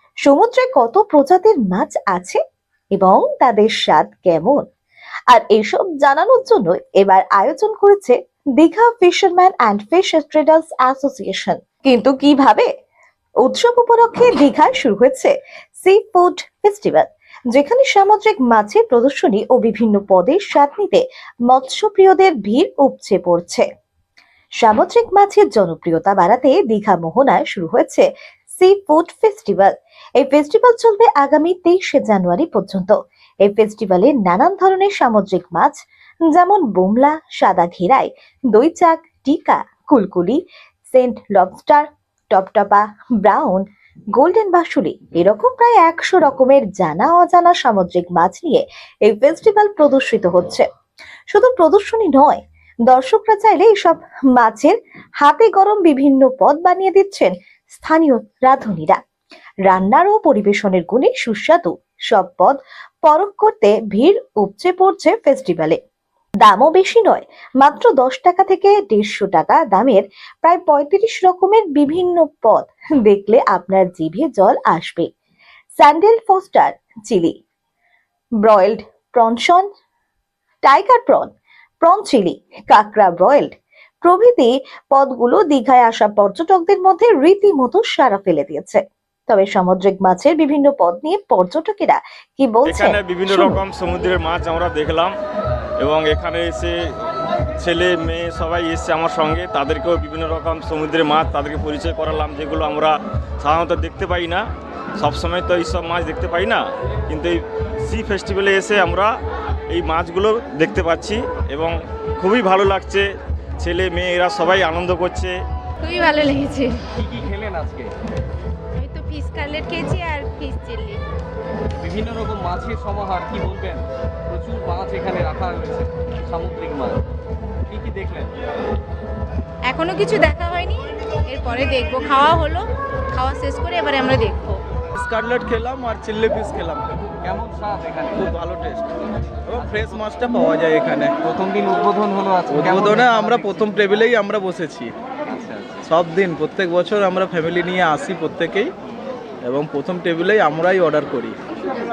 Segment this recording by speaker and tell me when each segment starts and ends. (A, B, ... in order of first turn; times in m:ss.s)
0:00.3-0:02.4 A
0:03.0-0:04.6 A
0:05.3-0:12.7 A
0:13.4-0:23.7 A
0:24.6-0:28.1 A
0:28.6-0:33.0 A
0:33.5-0:35.8 A
0:36.3-0:43.6 A
0:44.2-0:50.7 A
0:51.3-0:59.0 A
0:59.7-1:05.8 A
1:06.4-1:15.1 A
1:15.8-1:17.3 A
1:18.4-1:19.7 A
1:20.6-1:21.3 A
1:21.8-1:23.5 A
1:24.0-1:33.6 A
1:32.6-1:35.2 B
1:35.8-1:36.9 B
1:37.6-1:49.2 B
1:49.7-1:55.4 B
1:55.8-1:56.8 C
1:57.0-1:57.9 D
1:58.8-2:01.0 C
2:01.8-2:07.0 D
2:07.7-2:08.3 D
2:09.7-2:14.6 C
2:15.0-2:16.9 E
2:17.1-2:18.3 D
2:18.2-2:18.9 E
2:19.5-2:21.1 E
2:19.5-2:20.0 D
2:21.2-2:23.7 D
2:22.5-2:24.9 E
2:25.3-2:25.9 D
2:25.9-2:28.7 E
2:29.4-2:31.4 E